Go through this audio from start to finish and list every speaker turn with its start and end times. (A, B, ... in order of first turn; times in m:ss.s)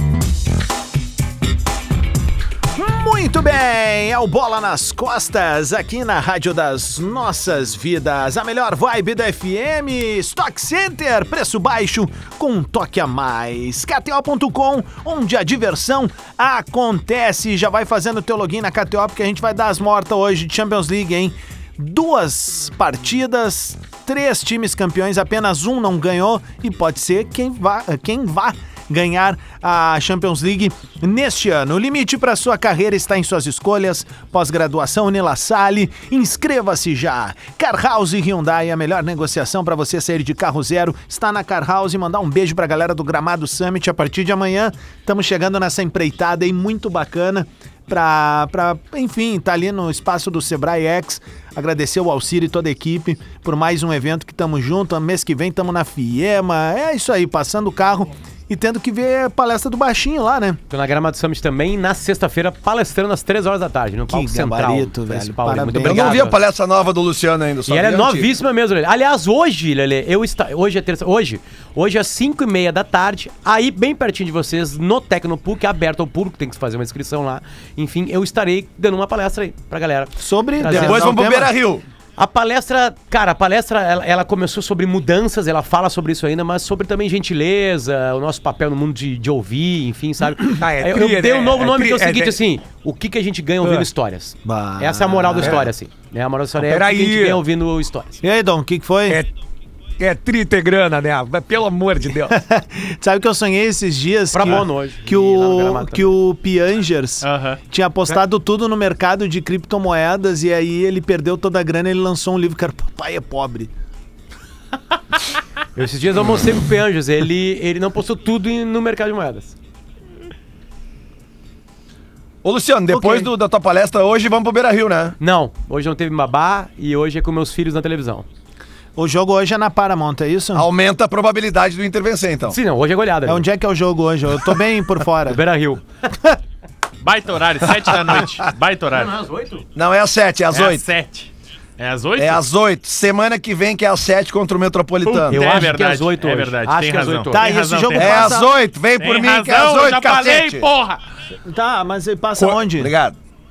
0:02.8-1:00.6 A
1:00.7-1:06.4 B
1:04.1-1:06.2 A
1:05.8-1:08.3 C
1:07.7-1:21.2 B
1:20.2-1:21.5 A
1:20.7-1:21.8 C
1:22.2-1:38.2 B
1:30.6-1:32.4 D
1:33.6-1:33.9 D
1:34.4-1:35.7 A
1:36.6-1:37.4 D
1:38.2-1:39.2 A
1:40.0-1:42.3 D
1:42.3-1:53.7 A
1:44.3-1:46.1 B
1:47.2-1:47.6 E
1:55.8-1:59.6 B
2:02.4-2:05.2 C
2:02.9-2:03.3 A
2:05.2-2:08.3 B
2:09.0-2:10.7 A
2:10.6-2:12.6 C
2:12.5-2:13.5 B
2:13.3-2:15.4 A
2:15.3-2:15.8 B
2:17.0-2:19.2 E
2:18.9-2:19.6 B
2:19.8-2:20.8 C
2:20.5-2:22.4 E
2:22.2-2:25.4 C
2:25.0-2:28.4 E
2:25.3-2:27.4 B
2:27.3-2:28.5 A
2:27.9-2:30.7 C
2:29.0-2:31.0 E
2:31.5-2:32.9 A
2:32.6-2:33.2 C